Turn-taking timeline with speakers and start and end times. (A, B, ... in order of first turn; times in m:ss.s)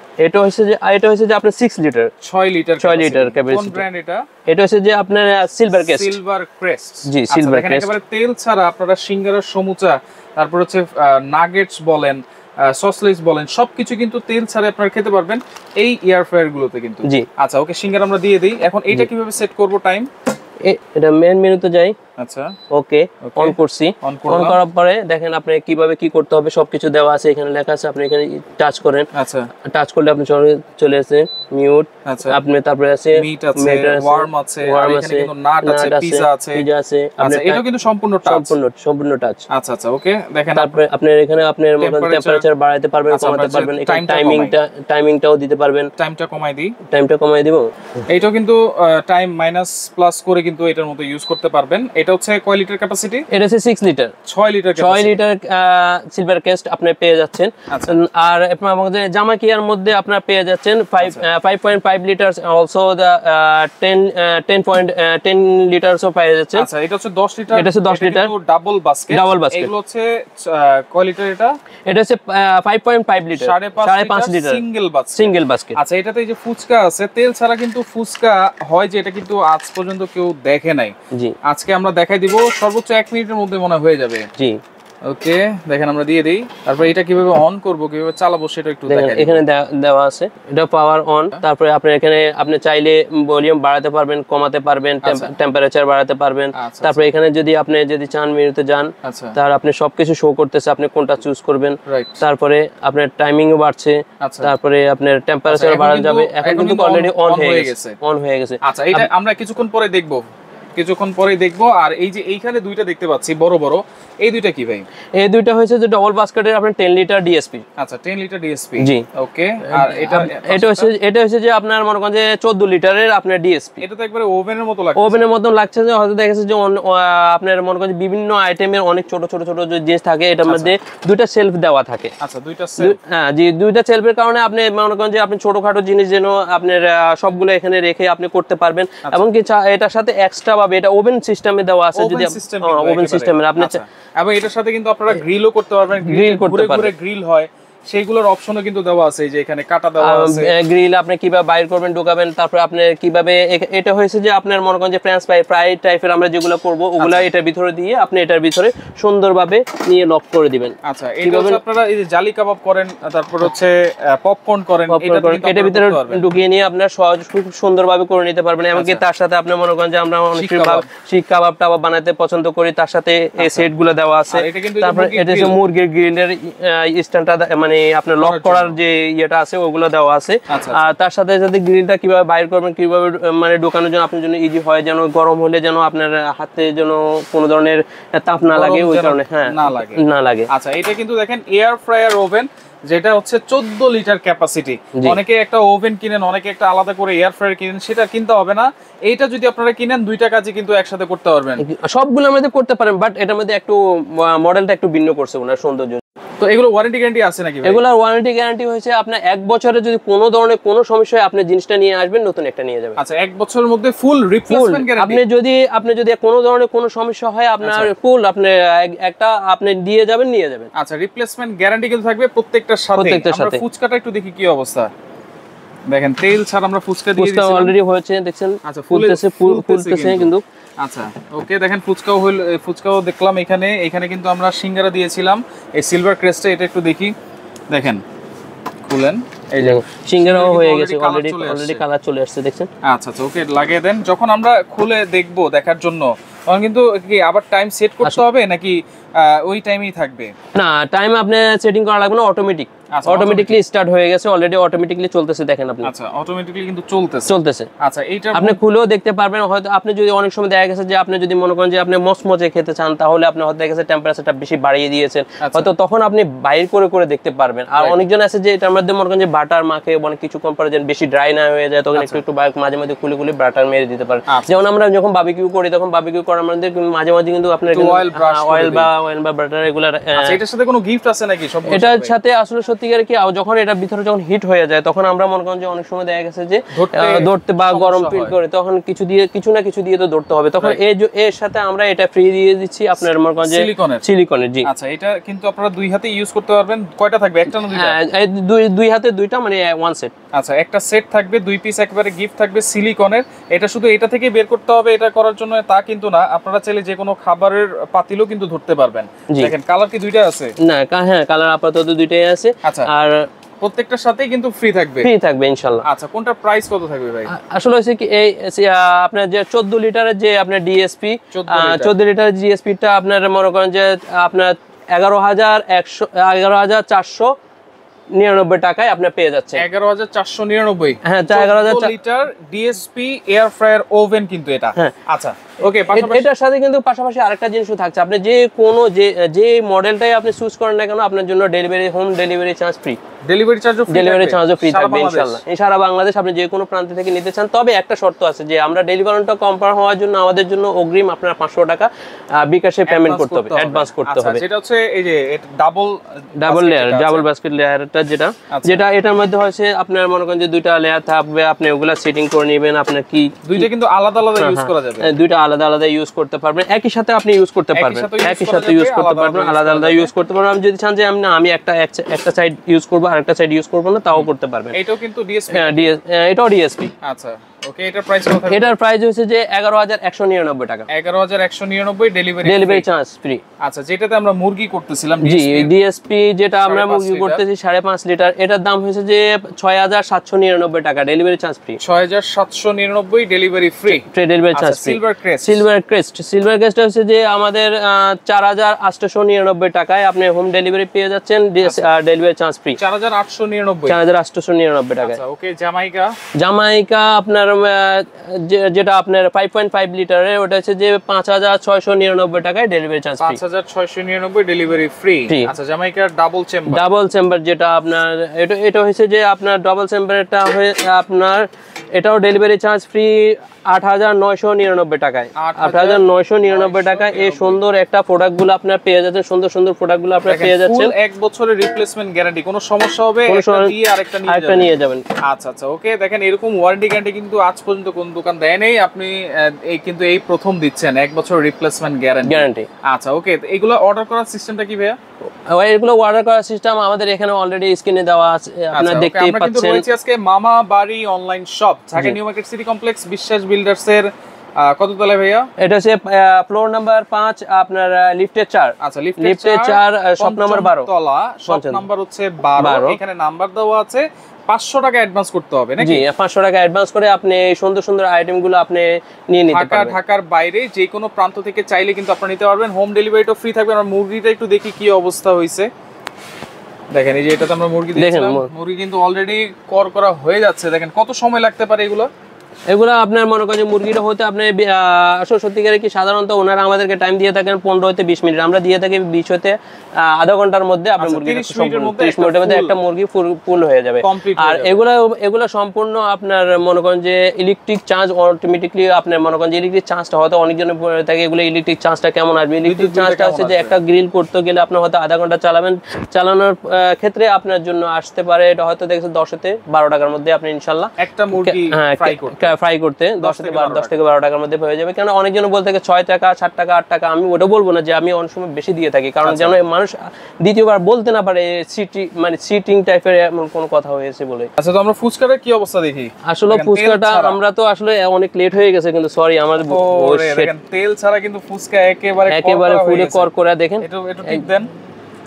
0:00.2-0:02.1 A
0:02.2-0:04.2 B
0:02.8-0:03.8 A
0:04.5-0:06.2 A
0:05.7-0:20.1 B
0:07.1-0:07.9 A
0:20.6-0:22.0 A
0:22.2-0:22.5 B
0:22.7-0:29.1 A
0:23.2-0:24.6 B
0:29.1-0:29.5 B
0:29.7-0:37.7 A
0:32.0-0:32.4 B
0:33.2-0:36.7 B
0:37.2-0:38.5 B
0:38.2-0:39.4 A
0:39.5-0:40.8 B
0:40.6-0:45.9 A
0:41.8-0:42.4 B
0:43.1-0:44.5 B
0:46.0-0:46.8 B
0:46.9-0:47.7 A
0:48.1-0:53.2 B
0:53.3-0:54.1 A
0:54.2-0:55.2 B
0:54.8-1:06.7 A
0:57.7-0:58.0 B
1:01.0-1:01.2 B
1:06.6-1:11.5 B
1:07.5-1:08.3 A
1:09.1-1:09.7 A
1:11.9-1:14.6 A
1:13.3-1:20.9 B
1:15.2-1:15.8 A
1:21.4-1:24.3 B
1:25.1-1:29.4 B
1:28.9-1:49.1 A
1:35.0-1:35.3 B
1:36.5-1:37.1 B
1:39.0-1:39.4 B
1:41.9-1:42.2 B
1:44.2-1:44.5 B
1:45.5-1:47.9 B
1:48.6-1:50.2 B
1:50.8-1:54.8 B
1:55.2-1:57.6 A
1:57.8-2:00.9 B
1:58.8-1:59.1 A
1:59.7-2:03.8 A
2:03.8-2:05.3 B
2:05.0-2:12.1 A
2:10.4-2:10.7 B
2:12.2-2:13.0 B
2:12.8-2:23.8 A
2:21.9-2:30.5 B
2:26.0-2:26.9 A
2:30.0-2:41.6 A
2:37.0-2:37.2 B
2:40.8-2:46.2 B
2:44.9-3:10.5 A
2:48.7-2:49.0 B
2:50.3-2:50.9 B
2:53.4-2:53.7 B
2:54.3-2:55.6 B
2:58.2-2:58.8 B
3:00.5-3:00.9 B
3:08.5-3:21.6 B
3:21.6-3:26.0 A
3:26.4-3:27.8 B
3:27.6-3:33.0 A
3:33.0-3:35.2 B
3:34.5-3:40.7 A
3:37.6-3:37.9 B
3:40.8-3:44.9 B
3:42.9-3:43.6 A
3:45.9-3:47.7 B
3:47.2-3:50.4 A
3:48.6-3:57.1 B
3:57.7-3:58.0 B
3:58.8-4:01.8 B
3:59.6-4:02.7 A
4:02.8-4:10.3 B
4:10.6-4:15.9 A
4:12.9-4:13.6 B
4:15.8-4:18.6 B
4:17.3-4:17.7 A
4:18.3-4:40.4 A
4:25.4-4:25.7 B
4:31.9-4:32.2 B
4:37.7-4:38.9 B
4:40.2-4:42.1 B
4:41.7-4:54.7 A
4:46.7-4:48.4 B
4:53.4-4:54.0 B
4:54.6-4:58.0 B
4:57.5-5:00.1 A
5:00.3-5:10.5 B
5:10.6-5:13.3 A
5:12.6-5:12.9 B
5:13.6-5:15.1 B
5:15.0-5:15.8 A
5:15.8-5:17.3 B
5:17.3-5:27.3 A
5:21.3-5:22.0 B
5:28.1-5:29.6 A
5:29.6-5:36.3 B
5:31.1-5:31.9 A
5:35.6-5:43.0 A
5:43.2-5:45.4 B
5:43.9-5:54.4 A
5:52.9-5:57.2 B
5:56.4-6:03.7 A
5:58.5-5:58.8 B
6:03.4-6:05.1 B
6:04.4-6:14.8 A
6:07.8-6:10.1 B
6:14.1-6:15.9 B
6:15.5-6:16.9 A
6:17.0-6:18.7 B
6:18.5-6:20.9 A
6:20.9-6:22.8 B
6:22.4-6:23.4 A
6:23.6-6:25.7 B
6:25.2-6:31.8 A
6:26.6-6:27.4 B
6:31.8-6:35.6 B
6:33.9-6:42.8 A
6:41.6-6:41.9 B
6:42.8-6:44.0 B
6:43.9-6:45.2 A
6:45.0-6:46.1 B
6:46.4-6:53.4 A
6:53.2-6:56.9 B
6:56.7-7:10.9 A
7:05.4-7:07.6 B
7:10.3-7:14.7 B
7:13.3-7:13.7 A
7:14.3-7:15.0 A
7:15.2-7:25.0 B
7:22.2-7:22.7 A
7:25.5-7:29.8 A
7:28.7-7:34.1 B
7:34.6-7:35.5 B
7:35.6-7:40.9 A
7:38.8-7:46.0 B
7:41.4-7:41.8 A
7:42.6-7:43.0 A
7:45.8-7:50.0 A
7:49.5-7:55.7 B
7:56.9-8:02.1 B
7:58.0-7:58.5 A
8:02.7-8:44.5 A
8:11.0-8:12.8 B
8:14.0-8:14.8 B
8:22.6-8:23.7 B
8:31.0-8:32.5 B
8:33.2-8:34.0 B
8:39.2-8:39.6 B
8:44.6-8:47.4 B
8:46.3-8:50.5 A
8:49.6-8:54.7 B
8:52.3-8:54.4 A